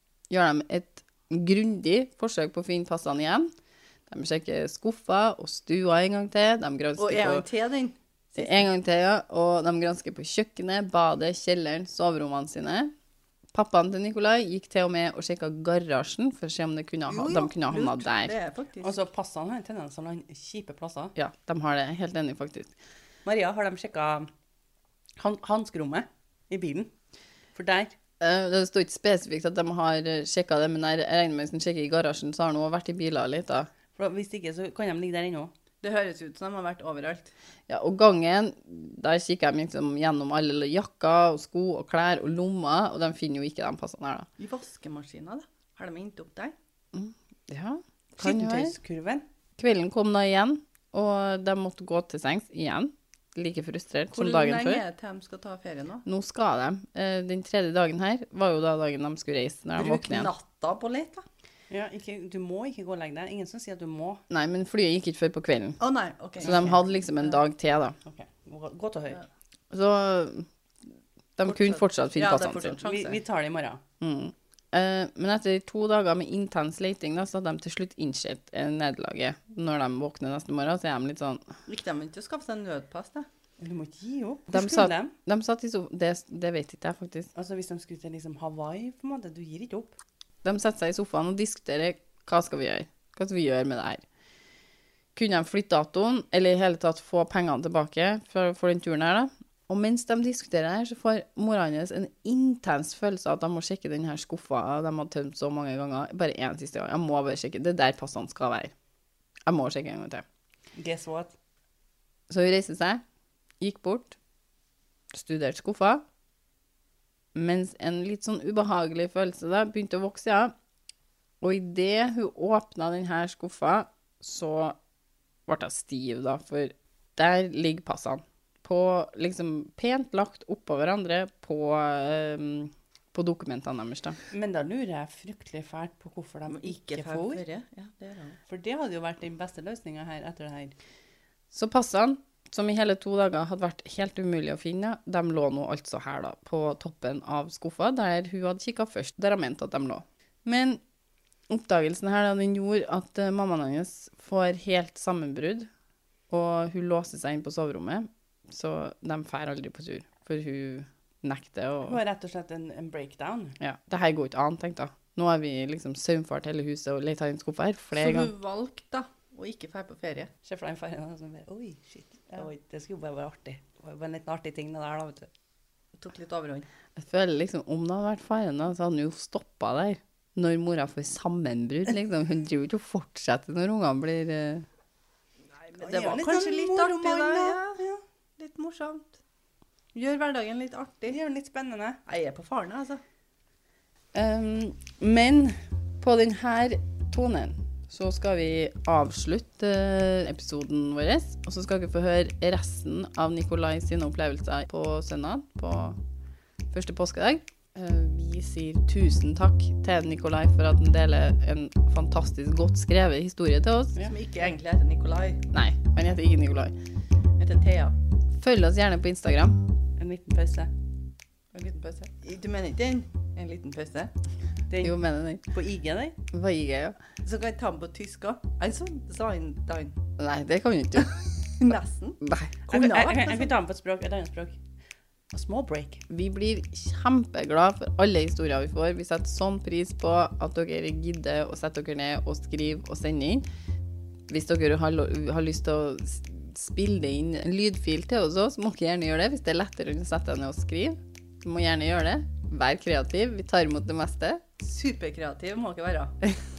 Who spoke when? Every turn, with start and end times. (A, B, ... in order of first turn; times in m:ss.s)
0:00.3-0:03.5 A
0:04.1-0:07.4 A
0:07.0-0:08.6 B
0:08.4-0:12.9 A
0:13.5-0:18.3 A
0:17.1-0:19.0 B
0:18.8-0:21.1 C
0:21.2-0:22.7 A
0:23.2-0:24.3 C
0:25.2-0:26.9 C
0:27.5-0:28.0 C
0:28.2-0:33.7 A
0:34.0-0:35.5 C
0:35.8-0:37.3 B
0:37.7-0:44.3 A
0:44.4-0:46.5 B
0:46.9-0:48.7 A
0:48.2-0:49.2 C
0:49.6-0:54.8 A
0:54.1-0:56.0 B
0:56.0-1:00.3 A
0:59.7-1:01.2 B
1:01.7-1:04.2 C
1:04.3-1:05.8 A
1:05.8-1:06.8 B
1:06.4-1:06.8 C
1:06.4-1:08.0 A
1:08.0-1:09.2 C
1:09.7-1:10.5 A
1:11.4-1:12.8 A
1:11.4-1:13.2 B
1:12.8-1:13.8 C
1:14.0-1:21.5 A
1:21.7-1:23.3 B
1:23.6-1:25.1 C
1:24.5-1:27.3 A
1:27.3-1:30.0 C
1:30.4-1:34.0 A
1:35.1-1:48.7 A
1:49.4-1:50.2 A
1:50.8-1:51.3 C
1:52.3-1:53.0 A
1:53.6-1:54.2 A
1:55.1-1:56.0 A
1:57.3-2:00.5 A
2:01.4-2:04.8 A
2:05.5-2:14.2 A
2:14.3-2:17.4 C
2:16.5-2:18.4 B
2:18.5-2:20.7 C
2:21.5-2:30.8 A
2:31.5-2:35.7 A
2:36.3-2:42.0 A
2:41.8-2:43.6 C
2:43.6-2:48.3 A
2:48.0-2:50.3 B
2:50.4-2:55.3 C
2:56.0-2:56.7 B
2:57.0-3:04.6 A
3:05.7-3:09.2 B
3:05.7-3:07.6 C
3:09.9-3:11.2 B
3:11.1-3:12.0 C
3:12.0-3:13.0 B
3:14.1-3:26.0 A
3:26.7-3:34.0 A
3:34.0-3:35.4 B
3:35.5-3:36.8 A
3:37.4-3:37.9 B
3:38.3-3:39.6 A
3:40.0-3:40.7 C
3:41.5-3:44.1 B
3:44.7-3:46.1 C
3:44.8-3:45.4 A
3:46.3-3:47.0 A
3:47.2-3:50.0 B
3:50.2-3:51.2 A
3:51.6-3:53.5 B
3:52.2-3:52.6 A
3:52.7-3:54.6 C
3:55.3-3:56.0 C
3:56.1-4:03.4 A
4:04.3-4:14.4 A
4:14.6-4:16.1 B